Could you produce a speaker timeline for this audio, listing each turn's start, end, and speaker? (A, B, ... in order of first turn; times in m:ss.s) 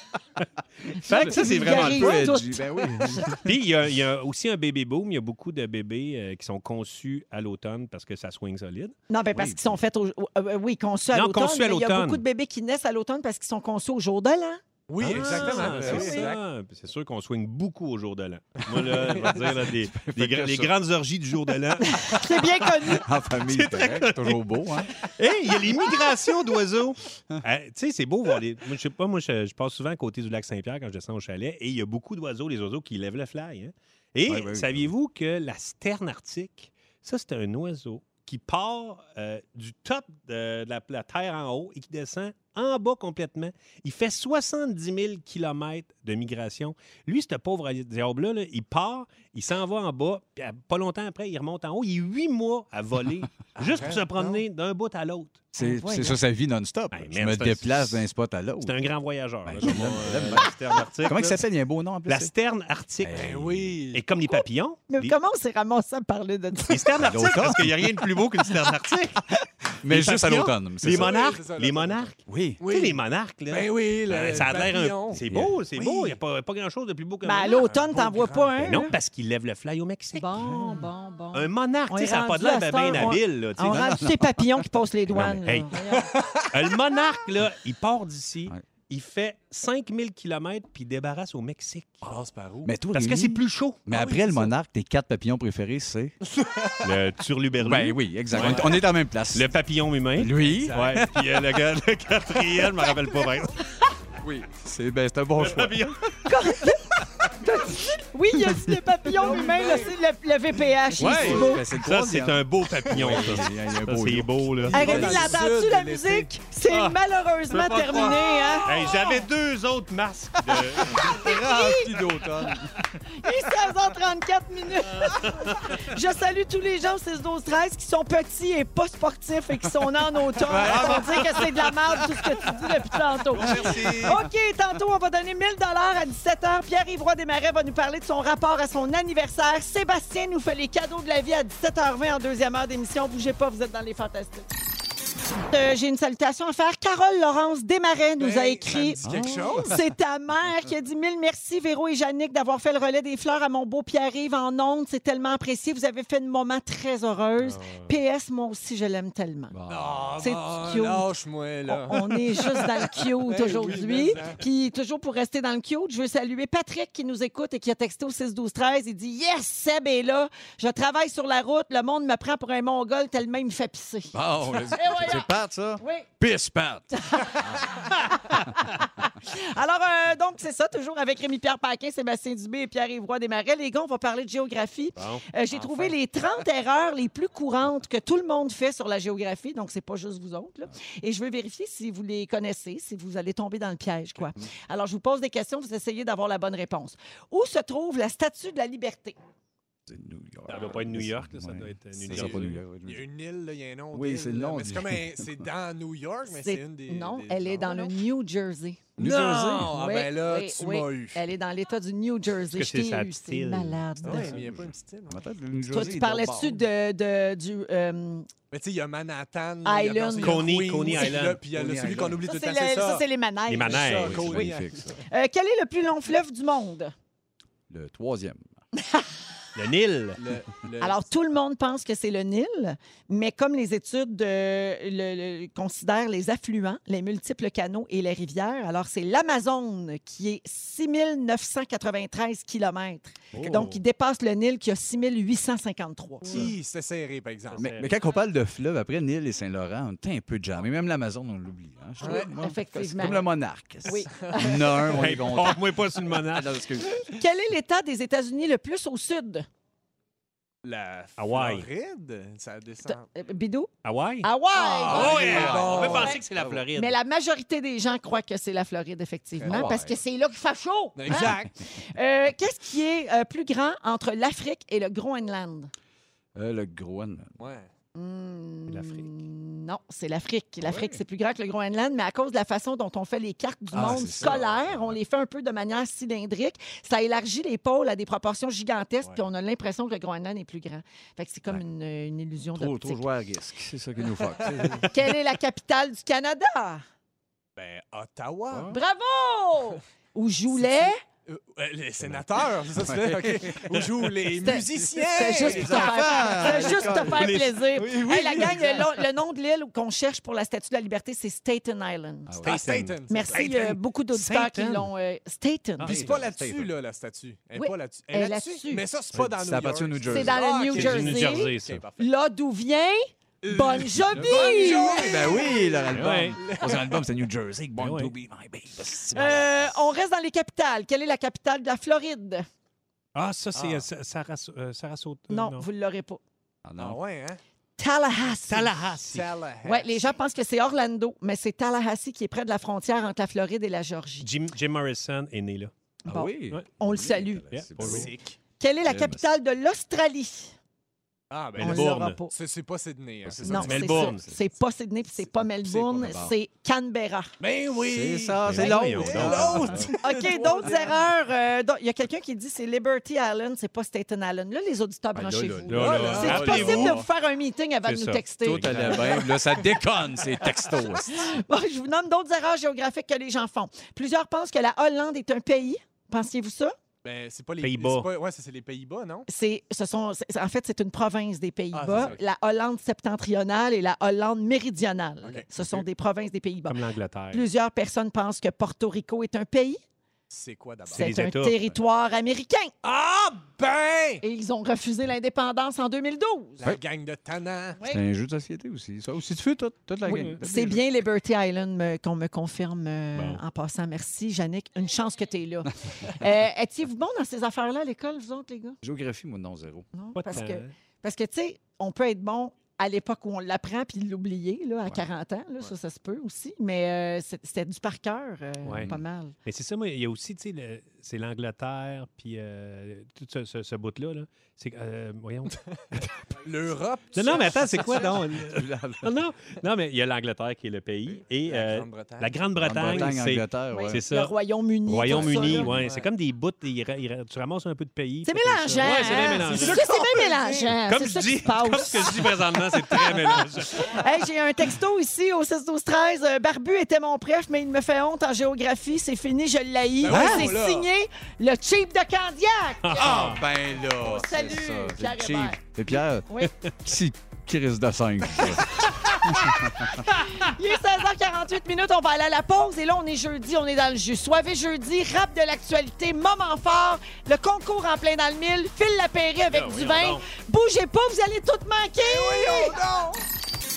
0:01.0-0:03.3 A
0:01.0-0:02.2 B
0:01.0-0:03.5 C
0:03.4-0:09.0 B
0:09.1-0:14.6 A
0:09.3-0:09.8 C
0:11.1-0:12.2 B
0:14.9-0:16.4 D
0:15.0-0:22.2 B
0:15.1-0:16.3 A
0:18.7-0:19.4 D
0:19.4-0:20.7 C
0:21.9-0:23.0 A
0:22.8-0:24.9 C
0:23.4-0:24.4 B
0:25.0-0:55.5 B
0:34.2-0:34.9 C
0:53.6-0:54.4 D
0:55.5-0:58.8 C
0:55.6-0:56.2 A
0:56.9-0:58.0 B
0:58.6-1:01.4 B
0:59.4-1:00.5 C
1:01.0-1:02.3 C
1:02.0-1:03.2 B
1:03.0-1:03.8 C
1:03.1-1:04.0 D
1:03.9-1:05.1 B
1:04.9-1:06.8 A
1:06.7-1:09.2 B
1:07.0-1:07.8 C
1:09.8-1:11.3 C
1:09.9-1:17.8 B
1:10.8-1:13.0 D
1:12.3-1:12.6 C
1:13.5-1:15.2 D
1:15.1-1:15.5 C
1:15.7-1:16.2 D
1:17.2-1:18.9 A
1:17.8-1:18.7 D
1:18.6-1:20.3 B
1:20.1-1:26.1 A
1:21.3-1:24.0 B
1:23.6-1:24.4 C
1:25.1-1:25.4 C
1:25.1-1:25.7 B
1:25.8-1:26.8 D
1:26.5-1:32.0 B
1:32.0-1:32.7 D
1:32.6-1:36.2 C
1:32.9-1:33.8 B
1:33.9-1:34.5 D
1:36.3-1:36.9 D
1:36.8-1:38.8 B
1:37.6-1:39.5 C
1:38.3-1:38.8 D
1:39.3-1:43.8 B
1:40.2-1:41.0 C
1:40.4-1:41.1 D
1:44.2-1:46.1 C
1:45.4-1:46.2 B
1:46.2-1:51.6 A
1:49.1-1:50.0 D
1:51.0-1:55.3 C
1:51.0-1:55.1 B
1:51.0-1:51.4 D
1:54.7-1:56.4 D
1:54.7-1:58.8 A
1:56.7-2:01.1 B
1:57.9-1:58.6 D
2:00.9-2:02.8 C
2:01.0-2:02.0 A
2:03.1-2:24.5 A
2:05.0-2:05.7 B
2:10.4-2:11.2 C
2:10.6-2:11.4 D
2:13.3-2:14.2 D
2:13.5-2:14.1 C
2:25.5-2:39.5 A
2:28.2-2:29.8 D
2:29.0-2:29.5 C
2:37.4-2:37.9 B
2:39.5-2:40.3 C
2:39.7-2:44.4 D
2:40.2-2:41.1 A
2:41.6-2:54.1 A
2:54.1-2:57.6 C
2:54.7-2:56.1 A
2:56.9-3:19.2 A
3:05.0-3:06.0 B
3:19.9-3:23.0 C
3:20.5-3:22.6 B
3:22.1-3:27.9 D
3:23.9-3:25.3 C
3:26.3-3:28.8 A
3:29.0-3:31.2 D
3:29.0-3:29.8 C
3:29.5-3:34.4 A
3:32.5-3:33.9 B
3:34.0-3:35.2 D
3:34.0-3:36.6 C
3:35.7-3:38.3 A
3:38.5-3:43.0 D
3:39.6-3:40.5 A
3:40.2-3:41.4 B
3:41.3-3:42.2 C
3:42.2-3:43.9 A
3:43.5-3:44.5 B
3:43.7-3:45.0 D
3:43.9-3:45.0 C
3:45.1-3:46.9 A
3:47.7-3:48.5 C
3:49.5-3:50.2 B
3:50.2-3:51.1 D
3:50.8-4:06.5 A
4:03.3-4:03.8 B
4:06.2-4:07.8 D
4:07.5-4:07.9 B
4:07.6-4:16.9 C
4:12.0-4:12.3 D
4:12.0-4:13.3 A
4:13.8-4:15.0 A
4:14.9-4:16.6 B
4:17.1-4:19.5 A
4:20.6-4:23.0 D
4:21.2-4:21.7 B
4:22.9-4:23.7 A
4:23.8-4:24.3 B
4:24.2-4:26.2 A
4:24.5-4:26.2 D
4:24.8-4:26.9 B
4:25.0-4:26.6 C
4:26.7-4:35.7 A
4:29.4-4:29.7 D
4:29.5-4:30.0 C
4:31.0-4:31.5 D
4:36.4-4:37.3 C
4:37.4-4:37.7 D
4:37.9-4:53.0 A
4:38.7-4:39.1 B
4:43.7-4:44.8 C
4:43.7-4:44.6 D
4:52.5-4:54.9 C
4:54.9-4:56.8 A
4:57.6-4:58.7 D
4:58.5-4:58.8 C
4:58.7-5:01.0 A
5:00.5-5:09.0 D
5:02.0-5:03.8 C
5:04.4-5:12.3 A
5:05.3-5:07.4 C
5:07.2-5:07.4 B
5:12.3-5:12.7 C
5:12.4-5:13.8 D
5:12.4-5:14.9 B
5:13.1-5:16.0 A
5:15.8-5:16.1 B
5:15.8-5:16.7 C
5:15.9-5:22.1 D
5:17.5-5:18.8 A
5:19.1-5:20.5 C
5:20.0-5:25.1 A
5:20.7-5:21.8 B
5:23.4-5:27.0 D
5:24.1-5:29.8 C
5:25.9-5:26.4 B
5:27.8-5:28.1 B
5:29.1-5:32.4 A
5:33.1-5:35.6 B
5:33.5-5:33.8 D
5:35.3-5:36.2 A
5:36.6-5:37.0 C
5:36.8-5:37.4 D
5:37.8-5:38.7 A
5:38.5-5:39.3 B
5:39.0-5:40.2 D
5:39.6-5:44.3 A
5:44.2-5:45.7 B
5:46.0-5:47.4 A
5:46.0-5:48.1 C
5:47.5-5:48.1 B
5:47.8-5:48.4 D
5:48.6-5:50.5 A
5:48.8-5:49.3 C
5:51.3-5:54.1 D
5:51.6-5:52.3 A
5:51.6-5:52.2 B
5:53.2-5:54.4 C
5:53.4-5:57.3 A
5:53.5-5:54.2 B
5:55.6-5:56.3 D
5:56.0-5:56.3 C
5:57.4-6:01.0 D
5:57.7-5:59.9 C
5:58.4-5:59.9 B
6:00.0-6:09.3 A
6:05.2-6:07.0 B
6:05.3-6:07.0 C
6:05.7-6:07.0 D
6:07.8-6:09.0 B
6:08.4-6:11.4 C
6:11.1-6:16.7 A
6:17.0-6:19.3 D
6:17.6-6:18.1 B
6:19.3-6:26.8 A
6:21.7-6:22.2 D
6:25.2-6:25.8 D
6:26.7-6:27.4 B
6:27.3-6:29.8 A
6:30.3-6:31.1 D
6:30.9-6:32.7 A
6:30.9-6:31.6 B
6:32.8-6:34.2 D
6:34.2-6:36.6 A
6:36.6-6:37.8 D
6:37.8-6:40.8 C
6:40.0-6:40.4 B
6:40.4-6:48.8 A
6:43.1-6:43.4 B
6:48.8-6:49.8 C
6:49.9-6:59.3 A
6:50.2-6:50.7 B
6:58.6-6:58.9 B
6:58.7-6:59.0 C
6:59.4-7:06.2 B
7:06.4-7:08.3 D
7:07.1-7:14.3 B
7:08.3-7:09.1 C
7:11.5-7:12.3 D
7:12.6-7:14.0 C
7:13.7-7:15.7 A
7:14.8-7:19.9 B
7:15.1-7:16.1 D
7:18.2-7:22.2 A
7:18.8-7:20.8 D
7:20.8-7:23.9 B
7:22.9-7:23.2 A
7:23.7-7:33.1 A
7:30.0-7:30.9 D
7:32.8-7:33.4 B
7:33.0-7:36.3 C
7:33.9-7:35.7 A
7:36.2-7:36.5 A
7:36.8-7:40.0 C
7:40.0-7:52.8 A
7:49.5-7:50.2 B
7:52.0-7:53.2 D